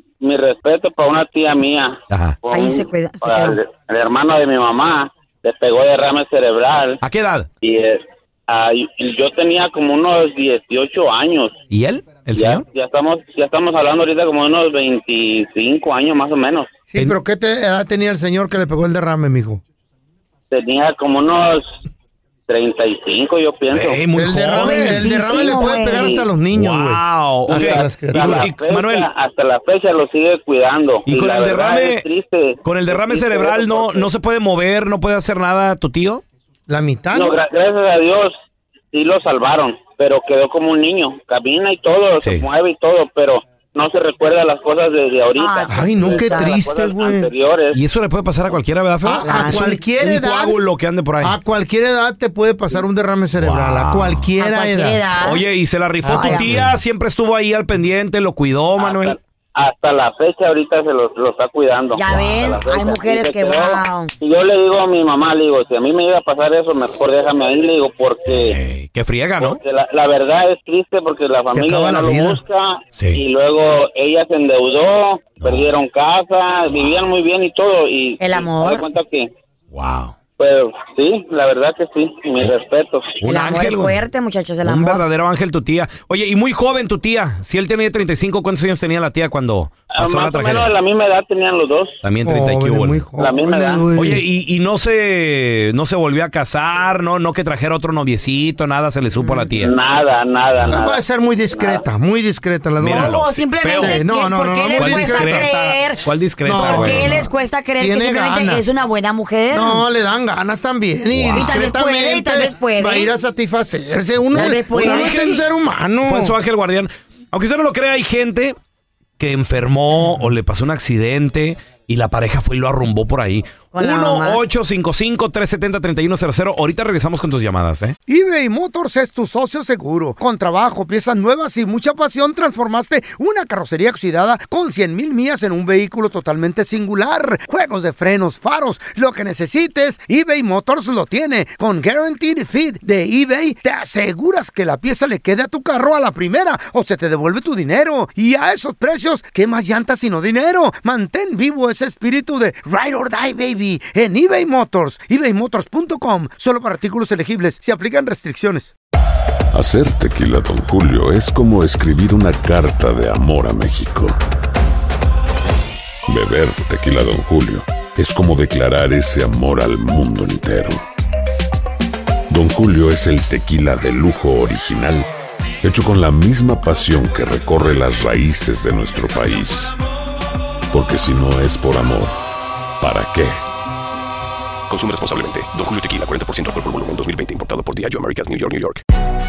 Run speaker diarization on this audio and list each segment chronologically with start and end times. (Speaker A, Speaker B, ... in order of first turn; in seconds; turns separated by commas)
Speaker A: 0.2-7.0, Speaker B: 2.1-2.4, Speaker C: 2.5-3.6, Speaker B: 7.0-7.5, Speaker A: 7.6-11.6, Speaker B: 11.7-12.7, Speaker A: 12.3-16.7, Speaker D: 16.9-19.6, Speaker A: 20.5-21.8, Speaker A: 22.5-24.0, Speaker B: 23.7-25.2, Speaker D: 24.1-28.5, Speaker C: 24.6-26.3, Speaker A: 25.4-26.2, Speaker B: 26.5-29.1, Speaker A: 27.6-34.1, Speaker B: 31.1-32.0, Speaker B: 32.6-36.2, Speaker D: 36.7-37.4, Speaker A: 37.1-38.4, Speaker A: 38.9-47.8, Speaker B: 42.2-42.5, Speaker C: 45.4-46.6, Speaker D: 45.7-47.3, Speaker B: 47.7-51.4, Speaker D: 49.0-50.6, Speaker C: 49.2-49.8, Speaker D: 51.2-55.0, Speaker B: 53.4-54.3, Speaker C: 54.4-55.4, Speaker B: 55.2-59.2, Speaker D: 56.0-56.7, Speaker C: 56.1-56.6, Speaker A: 58.8-68.6, Speaker C: 62.0-64.1, Speaker B: 62.1-62.4, Speaker B: 68.3-69.6, Speaker A: 69.4-79.3, Speaker D: 71.5-72.4, Speaker B: 73.0-73.2, Speaker B: 75.4-75.8, Speaker B: 76.8-77.1, Speaker C: 78.2-78.9, Speaker B: 79.7-80.2, Speaker A: 80.4-83.2, Speaker B: 83.2-84.0, Speaker C: 83.2-85.0, Speaker B: 84.7-90.8, Speaker A: 89.9-92.0, Speaker B: 92.0-93.1, Speaker D: 92.2-94.2, Speaker A: 93.2-93.9, Speaker B: 93.9-99.7, Speaker A: 99.6-101.8, Speaker D: 100.6-105.5, Speaker B: 102.8-104.0, Speaker C: 102.9-109.8, Speaker B: 104.8-107.3, Speaker D: 106.5-108.7, Speaker D: 109.5-116.3, Speaker B: 111.1-111.6, Speaker C: 111.3-113.1, Speaker C: 114.3-115.4, Speaker B: 114.7-115.3, Speaker B: 116.0-118.6, Speaker B: 119.2-128.0, Speaker C: 123.7-124.4, Speaker D: 128.1-158.7, Speaker E: 159.5-164.2, Speaker E: 166.1-170.8, Speaker E: 172.3-175.1, Speaker E: 175.6-179.8, Speaker E: 180.7-182.2, Speaker E: 182.8-183.4, Speaker F: 184.7-188.8